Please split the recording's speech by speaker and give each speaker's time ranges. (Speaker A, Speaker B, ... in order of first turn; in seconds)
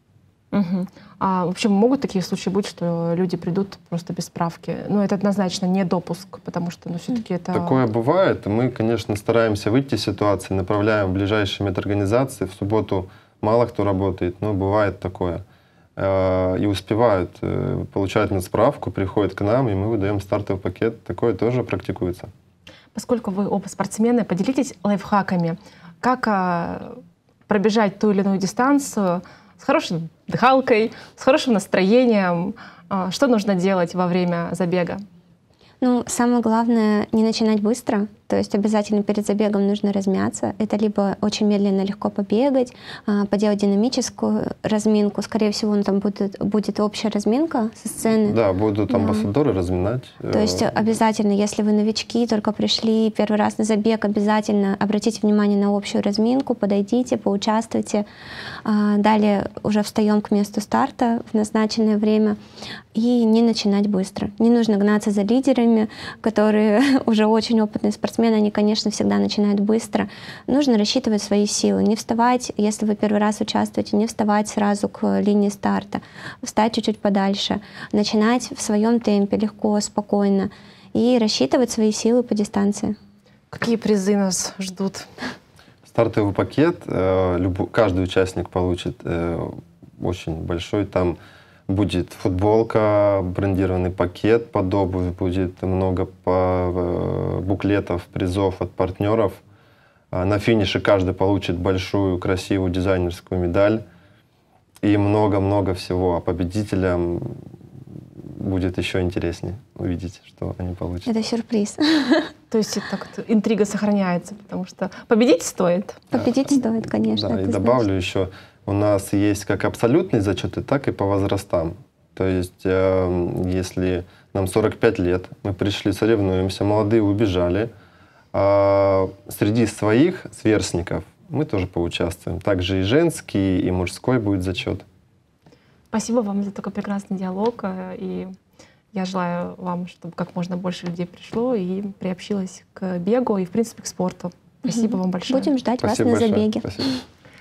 Speaker A: 0.5-7.8, 22.9-35.0, 83.5-85.1, 112.5-116.0, 135.9-138.3, 138.9-145.6
Speaker B: 7.5-15.4, 16.0-22.3, 48.3-50.8, 85.9-99.4, 100.1-103.8, 104.8-107.4, 108.4-111.1, 117.0-127.7, 128.3-134.8, 145.8-147.0
Speaker C: 35.8-48.4, 48.9-49.3, 50.3-58.0, 58.6-62.4, 63.0-83.0, 111.1-112.3, 116.1-117.8, 144.8-147.0